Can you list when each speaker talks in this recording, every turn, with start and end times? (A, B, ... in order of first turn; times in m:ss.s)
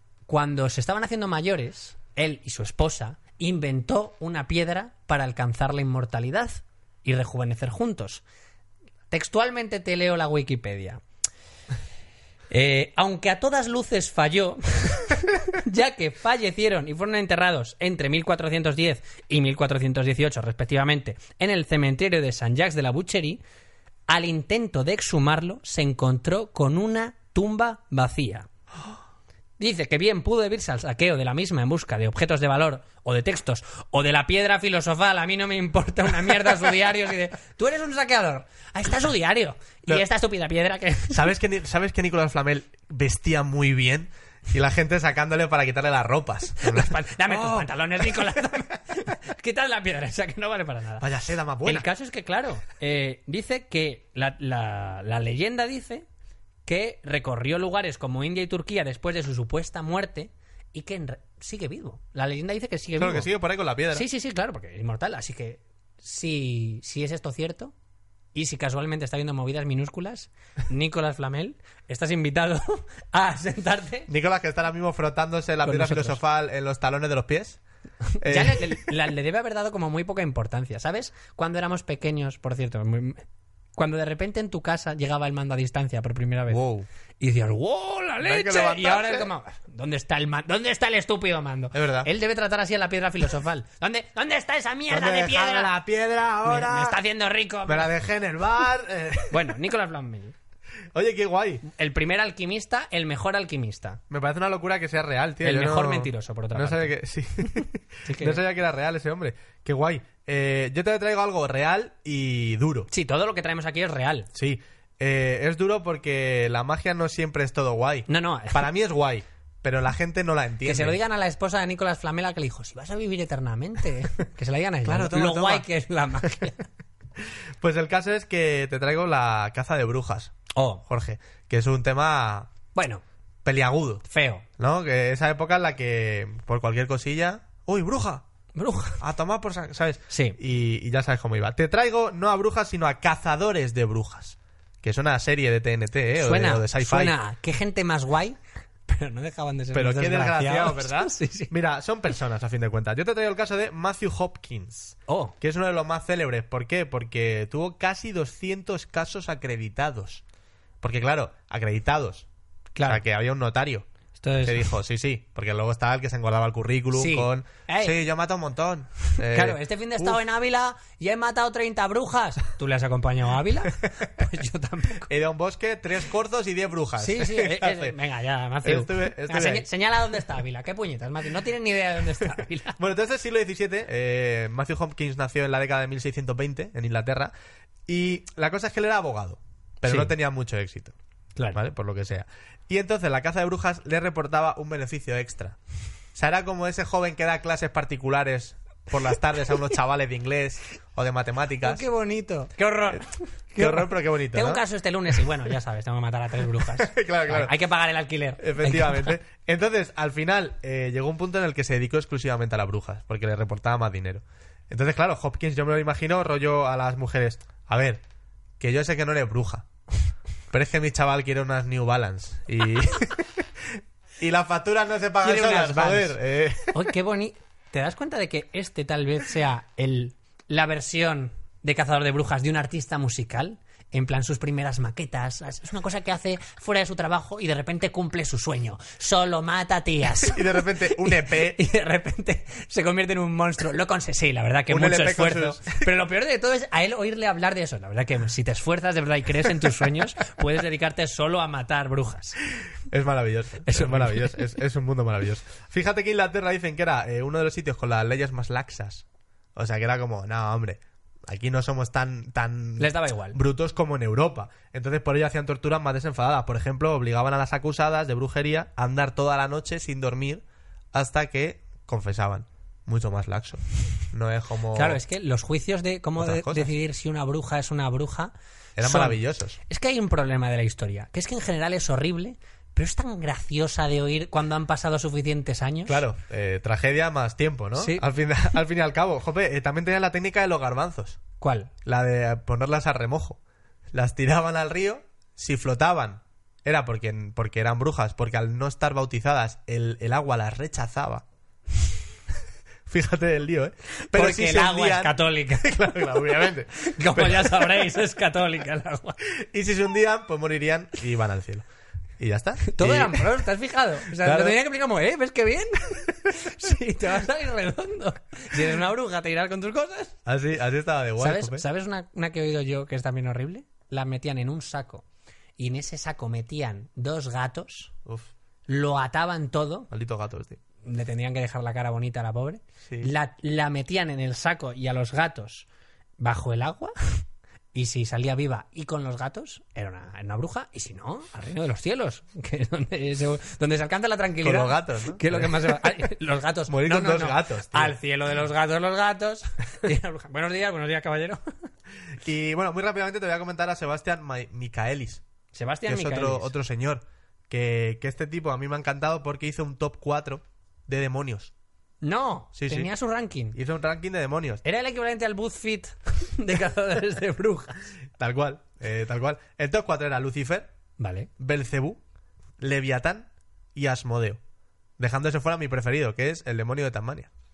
0:00.3-0:08.2 A
0:09.1-0:11.0 A
0:12.5-0:23.4 A
0:24.1-0:28.5 A
0:29.6-0:41.2 A
0:41.1-0:48.4 B
0:46.6-0:51.0 A
0:51.0-0:51.9 B
0:51.6-0:56.1 A
0:56.7-1:03.3 A
1:03.0-1:04.1 B
1:03.9-1:07.7 A
1:08.3-1:14.1 A
1:14.1-1:17.6 B
1:15.6-1:16.2 A
1:18.2-1:23.2 A
1:18.2-1:18.9 B
1:23.8-1:26.6 A
1:26.5-1:26.9 B
1:27.2-1:35.7 A
1:28.2-1:29.3 B
1:31.7-1:32.1 B
1:34.9-1:37.0 B
1:36.4-1:37.9 A
1:37.7-1:39.6 B
1:39.3-1:40.3 A
1:40.9-1:41.6 B
1:41.7-1:44.0 A
1:44.1-1:52.9 B
1:45.4-1:46.9 A
1:48.0-1:48.4 A
1:52.9-1:54.3 A
1:54.3-2:01.0 B
1:58.1-1:58.7 A
2:00.6-2:06.6 A
2:04.9-2:05.6 B
2:07.6-2:10.4 B
2:10.5-2:10.8 A
2:10.9-2:12.5 B
2:12.8-2:13.0 A
2:13.4-2:14.0 B
2:14.1-2:14.4 A
2:14.6-2:18.2 B
2:18.6-2:19.0 A
2:19.0-2:27.2 B
2:20.1-2:20.4 A
2:26.2-2:31.5 A
2:29.7-2:40.2 B
2:35.1-2:35.3 A
2:40.8-2:42.3 B
2:42.8-2:43.0 A
2:42.9-2:43.9 B
2:44.2-2:44.7 A
2:44.4-2:50.2 B
2:46.9-2:48.0 A
2:49.2-2:55.1 A
2:55.1-2:58.0 B
2:57.0-3:02.8 A
2:58.6-2:59.7 B
3:02.8-3:07.3 B
3:07.9-3:10.9 B
3:09.9-3:10.1 A
3:11.5-3:15.6 B
3:16.2-3:21.8 B
3:21.6-3:29.2 A
3:23.6-3:24.6 B
3:26.6-3:27.5 B
3:28.4-3:38.0 B
3:38.6-3:39.7 B
3:40.5-3:46.7 B
3:45.2-3:46.2 A
3:46.7-4:12.4 A
4:00.2-4:01.6 B
4:04.7-4:05.8 B
4:12.9-4:35.0 B
4:13.6-4:14.3 A
4:22.8-4:23.4 A
4:34.7-4:46.0 A
4:36.2-4:36.7 B
4:38.8-4:39.6 B
4:45.9-4:51.2 B
4:47.8-4:48.1 A
4:51.4-4:51.7 A
4:51.8-4:53.4 B
4:53.9-5:01.2 B
5:02.9-5:07.8 B
5:04.1-5:05.8 A
5:06.7-5:09.2 A
5:09.3-5:11.7 B
5:12.2-5:13.3 B
5:12.6-5:20.2 A
5:14.2-5:14.6 B
5:20.3-5:21.6 B
5:21.2-5:25.0 A
5:25.6-5:27.9 A
5:28.7-5:29.9 A
5:29.9-5:30.6 B
5:30.8-5:35.7 A
5:32.8-5:33.1 B
5:36.2-5:37.2 A
5:37.7-5:51.4 A
5:44.4-5:46.0 B
5:46.7-5:48.0 B
5:52.2-5:55.2 B
5:55.5-5:56.5 A
5:55.9-6:01.5 B
6:02.0-6:03.6 A
6:02.6-6:02.9 B
6:03.5-6:04.6 B
6:04.6-6:07.9 A
6:08.2-6:10.7 B
6:11.0-6:11.3 A
6:11.4-6:12.0 B
6:12.6-6:14.4 B
6:15.0-6:17.3 B